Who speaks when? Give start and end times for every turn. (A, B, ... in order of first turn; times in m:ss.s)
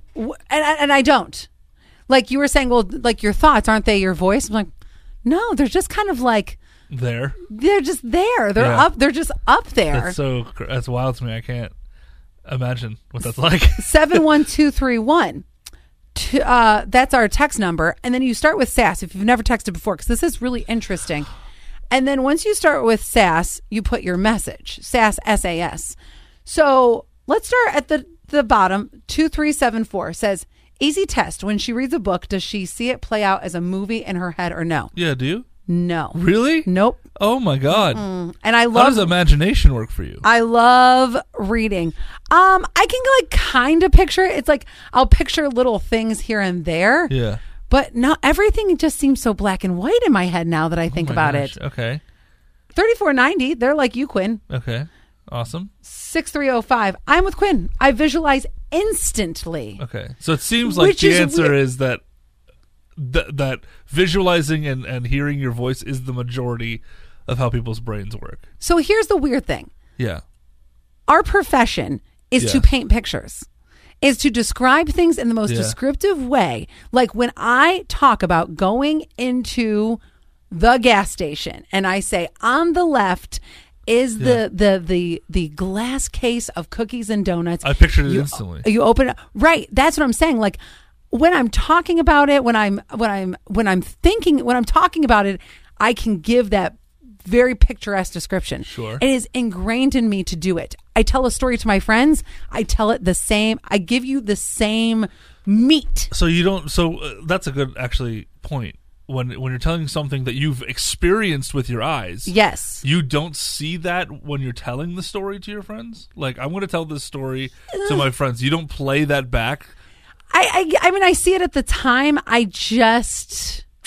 0:00.2-0:01.5 A
0:02.1-0:04.7 A
0:05.2-0:06.6 A
0:06.9-0:07.4 B
0:07.5-0:10.2 A
0:08.6-0:08.9 B
0:09.9-0:11.7 B
0:12.5-0:14.2 B
0:13.8-0:15.4 A
0:16.1-0:21.3 A
0:21.9-0:34.9 A
0:34.9-0:35.4 B
0:35.7-0:37.0 A
0:36.1-0:38.0 B
0:37.7-0:39.1 A
0:38.7-0:40.2 B
0:40.2-0:47.1 A
0:47.1-0:47.4 B
0:47.7-0:51.6 A
0:50.9-0:52.0 B
0:52.7-0:54.4 A
0:54.5-0:55.7 B
0:55.8-0:59.8 A
0:59.8-1:02.0 B
1:00.6-1:01.6 A
1:03.0-1:08.4 B
1:08.6-1:09.7 A
1:11.1-1:13.4 A
1:12.4-1:12.7 B
1:14.0-1:30.6 A
1:15.4-1:15.8 B
1:24.2-1:24.4 B
1:27.6-1:28.6 B
1:31.1-1:46.1 A
1:38.6-1:39.0 B
1:46.1-1:59.7 B
1:52.2-1:52.8 A
1:57.7-1:58.1 A
2:00.3-2:03.6 A